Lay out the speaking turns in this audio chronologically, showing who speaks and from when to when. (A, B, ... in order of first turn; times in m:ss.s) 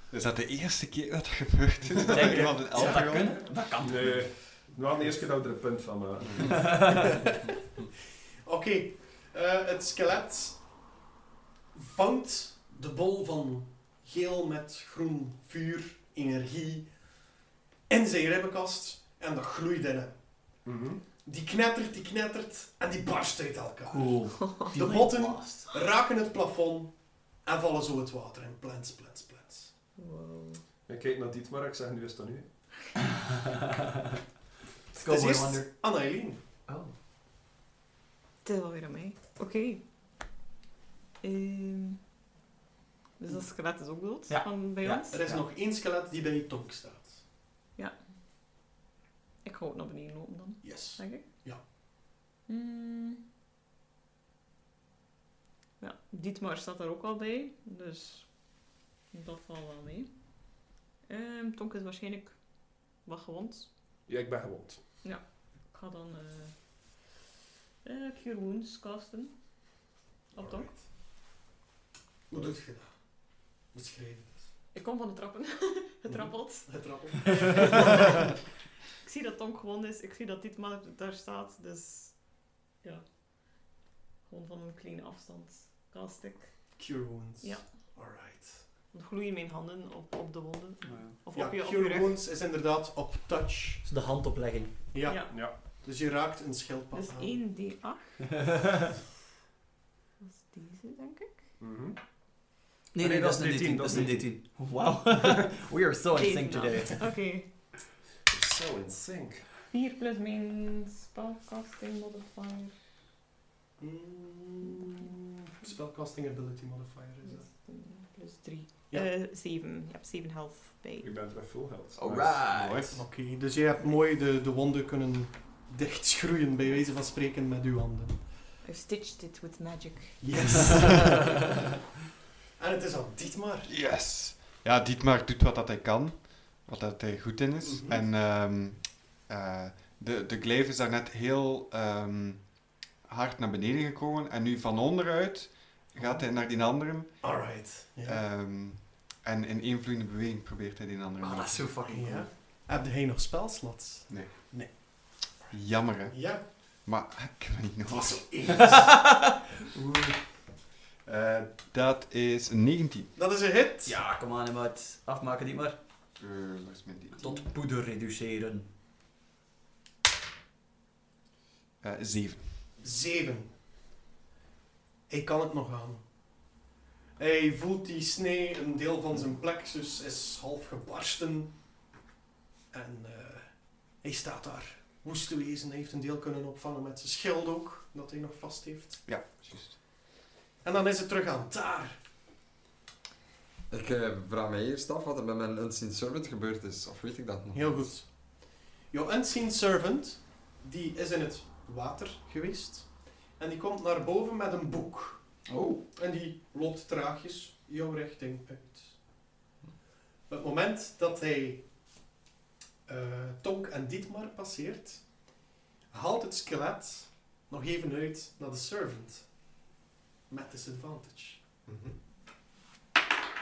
0:00.1-0:03.4 A
0:02.1-0:04.2 B
0:02.8-0:03.0 C
0:03.8-0:06.8 D
0:06.7-0:07.0 B
0:06.9-0:07.3 C
0:08.4-0:10.6 C
0:11.7-0:16.9 C
0:17.9-0:20.2 C
0:20.6-0:21.0 D
0:21.2-0:29.7 C
0:23.9-0:25.7 B
0:30.0-0:30.6 E
0:30.9-0:32.5 D
0:34.9-0:35.7 B
0:34.9-0:36.4 C
0:36.7-0:36.9 B
0:38.4-0:39.8 E
0:41.2-0:42.0 E
0:43.2-0:45.2 E
0:44.3-0:45.4 B
0:45.1-0:47.2 C
0:49.4-0:51.3 E
0:50.6-0:51.6 C
0:52.5-0:53.2 E
0:55.8-0:58.3 E
0:59.1-1:00.1 E
1:01.1-1:02.4 E
1:03.0-1:03.7 E
1:04.1-1:04.8 D
1:05.0-1:06.5 E
1:07.8-1:09.3 E
1:10.4-1:10.7 E
1:10.4-1:10.8 C
1:12.3-1:12.9 C
1:13.7-1:14.4 C
1:14.7-1:18.4 E
1:16.1-1:18.2 C
1:19.0-1:22.2 E
1:24.3-1:26.7 E
1:26.8-1:28.6 C
1:27.4-1:27.7 E
1:28.9-1:32.2 E
1:30.8-1:31.2 B
1:31.4-1:33.8 C
1:33.8-1:34.7 B
1:34.9-1:37.4 C
1:35.1-1:35.3 E
1:35.3-1:35.6 D
1:36.9-1:38.2 E
1:38.4-1:38.9 B
1:40.2-1:41.4 E
1:41.6-1:42.0 D
1:42.9-1:47.0 B
1:43.0-1:44.4 D
1:46.1-1:47.5 E
1:48.3-1:49.4 D
1:49.7-1:52.7 E
1:53.8-1:57.5 C
1:57.2-2:01.1 E
2:01.0-2:02.5 D
2:02.0-2:02.9 B
2:02.5-2:02.9 A
2:02.9-2:08.2 C
2:08.6-2:10.6 E
2:10.2-2:11.5 C
2:12.6-2:13.7 C
2:13.7-2:27.4 A
2:17.6-2:18.0 C
2:26.0-2:26.2 C
2:27.2-2:28.2 C
2:28.1-2:31.8 A
2:31.2-2:32.3 B
2:31.9-2:35.5 C
2:34.1-2:34.5 A
2:35.5-2:38.2 A
2:36.1-2:36.5 C
2:37.9-2:39.1 C
2:38.6-2:39.3 B
2:41.0-2:43.1 A
2:43.2-2:44.0 C
2:43.8-2:45.8 B
2:46.2-2:47.4 A
2:47.2-2:48.7 B
2:51.8-2:52.7 A
2:52.8-2:53.6 C
2:55.1-2:56.0 C
2:57.2-3:01.5 C
3:02.7-3:09.0 C
3:09.0-3:09.8 A
3:10.6-3:12.0 C
3:13.7-3:17.9 F
3:17.5-3:25.2 C
3:25.5-3:25.8 B
3:26.0-3:29.0 C
3:30.3-3:31.6 C
3:32.9-3:35.2 C
3:35.9-3:39.3 C
3:40.3-3:41.5 C
3:41.7-3:41.9 A